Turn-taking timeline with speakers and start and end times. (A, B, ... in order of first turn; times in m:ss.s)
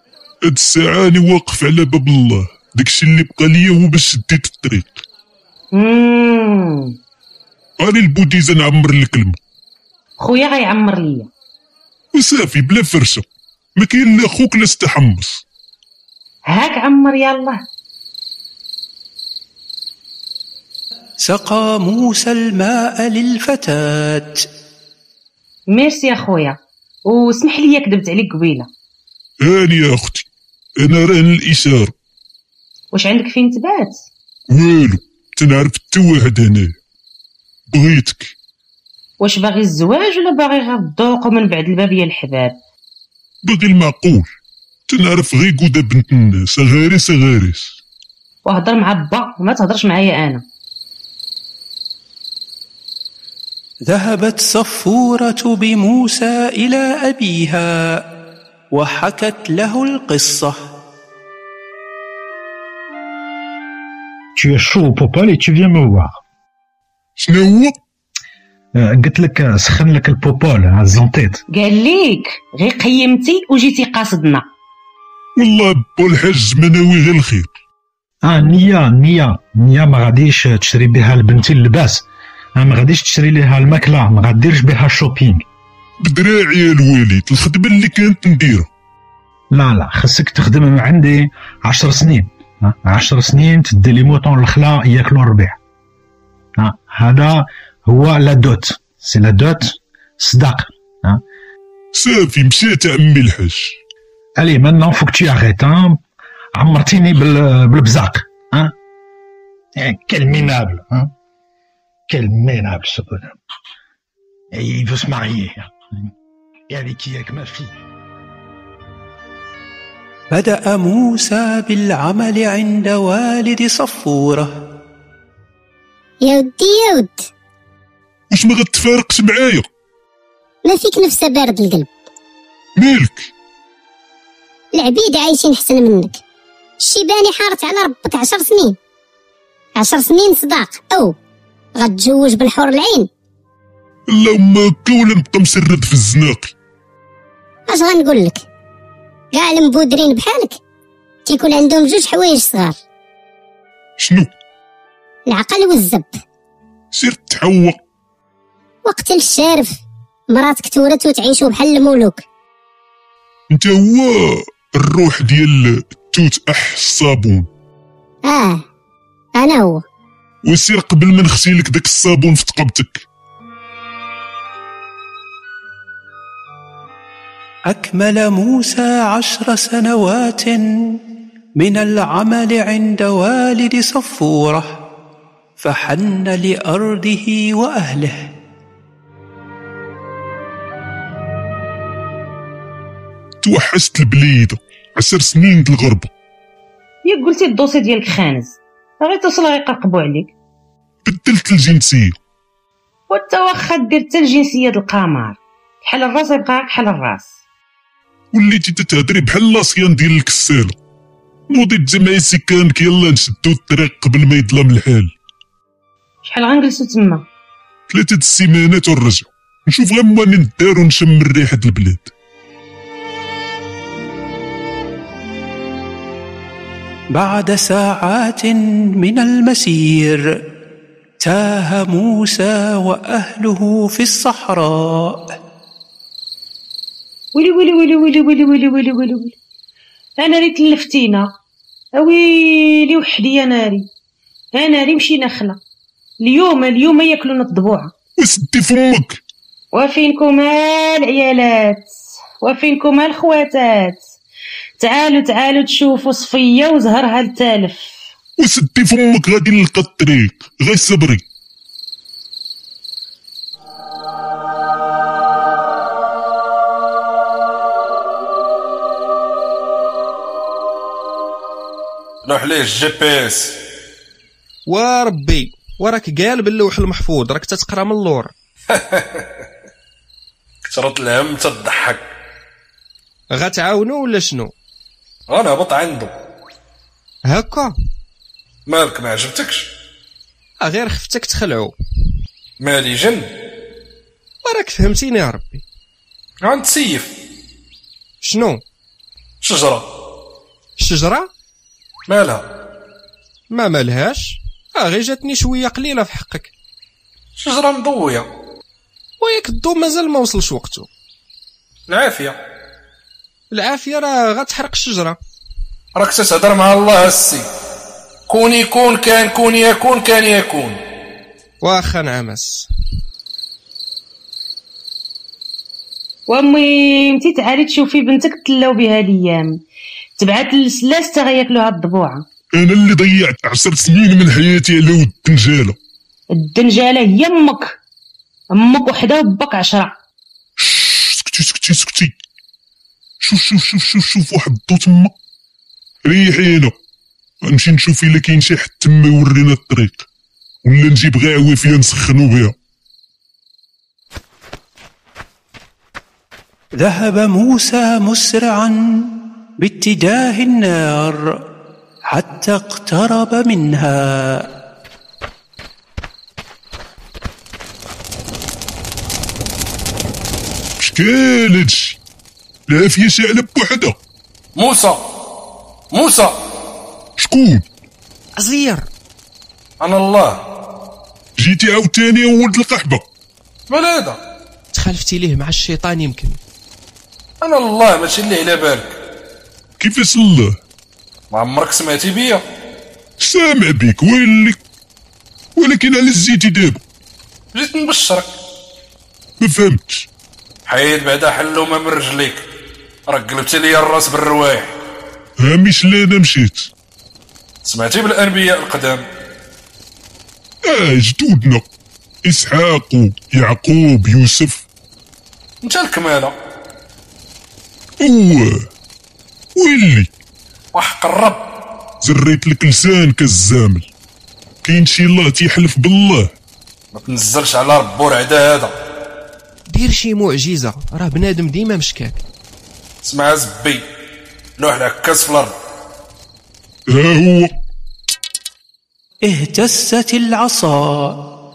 0:00.4-0:05.0 A
0:05.7-0:07.0 B
0:07.8-0:09.4 A
0:10.2-0:11.3 B
0:12.2-0:13.2 A
0:13.8-0:15.4 A
0:16.5-0:17.6 B
0:21.2-0:24.5 C
0:25.7-0:28.7 B
0:29.4-0:30.3 A
0:30.8-0:31.9 A
0:32.9-0:34.0 B
0:34.5-0:36.8 A
0:37.7-0:38.3 A
0:39.2-0:42.6 B
0:43.4-0:44.3 A
0:44.9-0:47.8 A
0:48.5-0:50.4 B
0:53.9-0:58.0 C
0:58.7-1:00.7 C
1:04.4-1:06.2 D
1:07.2-1:07.8 A
1:08.8-1:11.4 D
1:11.5-1:14.4 B
1:15.4-1:17.5 A
1:18.2-1:22.0 D
1:22.6-1:25.4 D
1:26.0-1:28.7 A
1:29.5-1:35.6 D
1:36.6-1:41.2 D
1:42.0-1:43.8 A
1:44.4-1:46.0 D
1:46.6-1:48.7 D
1:49.8-1:51.1 D
1:52.1-1:53.4 D
1:54.5-1:55.7 D
1:56.7-1:57.7 D
2:00.3-2:04.6 C
2:06.2-2:07.3 E
2:08.3-2:09.7 A
2:10.6-2:11.9 E
2:12.8-2:13.3 A
2:14.7-2:16.2 E
2:16.8-2:18.8 E
2:19.8-2:21.2 E
2:21.8-2:23.1 E
2:24.1-2:26.5 A
2:27.7-2:28.4 E
2:29.3-2:30.6 E
2:31.3-2:32.8 E
2:34.0-2:34.3 A
2:35.3-2:36.2 E
2:36.9-2:37.8 A
2:38.8-2:39.8 E
2:40.3-2:42.2 E
2:43.5-2:47.5 A
2:48.2-2:48.6 E
2:49.4-2:49.8 E
2:50.5-2:53.0 A
2:57.7-3:01.0 C
3:01.6-3:04.8 C
3:05.6-3:08.3 C
3:13.4-3:16.1 A
3:17.0-3:20.3 B
3:21.0-3:22.2 A
3:23.1-3:27.3 B
3:28.3-3:30.8 A
3:31.5-3:35.1 A
3:36.2-3:37.2 B
3:37.9-3:42.1 A
3:47.1-3:50.2 C
3:51.2-3:55.3 C
3:57.4-3:59.4 B
4:00.2-4:01.3 B
4:02.0-4:03.9 B
4:04.5-4:05.6 B
4:06.2-4:07.9 B
4:08.2-4:09.2 A
4:09.7-4:14.0 B
4:14.8-4:17.9 B
4:18.4-4:21.2 A
4:32.2-4:33.6 F
4:34.7-4:38.3 G
4:38.7-4:39.3 F
4:40.6-4:42.0 F
4:43.3-4:44.5 G
4:45.3-4:46.1 F
4:47.2-4:47.8 G
4:48.7-4:49.7 F
4:50.6-4:51.7 G
4:52.6-4:53.3 F
4:54.4-4:55.6 G
4:56.4-4:57.1 F
4:58.2-4:58.6 G
4:59.4-4:59.9 F
5:00.8-5:01.3 G
5:02.1-5:02.4 F
5:03.5-5:06.5 G
5:07.4-5:08.3 F
5:09.2-5:10.9 G
5:11.9-5:12.4 F
5:13.5-5:15.2 G
5:16.0-5:17.5 F
5:18.3-5:20.8 F
5:21.6-5:22.7 G
5:26.3-5:29.6 B
5:30.2-5:32.2 B
5:32.5-5:35.8 A
5:36.3-5:37.8 B
5:38.5-5:39.9 B
5:40.6-5:42.2 A
5:43.2-5:45.1 A
5:46.1-5:46.7 A
5:47.4-5:50.0 A
5:50.6-5:52.5 A
5:56.8-6:01.2 C
6:02.1-6:04.5 C
6:10.8-6:12.0 A
6:12.7-6:14.0 A
6:14.6-6:15.0 F
6:15.9-6:16.4 F
6:17.2-6:17.6 A
6:18.4-6:18.9 G
6:19.8-6:20.4 F
6:21.4-6:23.0 A
6:23.7-6:24.2 F
6:24.7-6:26.4 G
6:27.4-6:29.0 F
6:29.8-6:30.6 A
6:31.3-6:32.4 F
6:33.2-6:34.6 A
6:35.6-6:36.8 A
6:37.6-6:38.3 F
6:39.4-6:40.1 A
6:40.7-6:42.4 F
6:43.1-6:44.7 F
6:45.4-6:46.7 A
6:47.6-6:49.0 F
6:50.7-6:51.6 A
6:52.2-6:54.6 A
6:55.6-6:56.4 F
6:58.0-6:58.7 A
6:59.6-7:00.1 A
7:00.7-7:01.4 F
7:02.0-7:03.9 A
7:04.6-7:06.3 A
7:06.9-7:08.7 F
7:09.7-7:12.2 G
7:13.0-7:13.8 F
7:14.6-7:15.5 F
7:16.9-7:17.6 A
7:19.2-7:21.2 C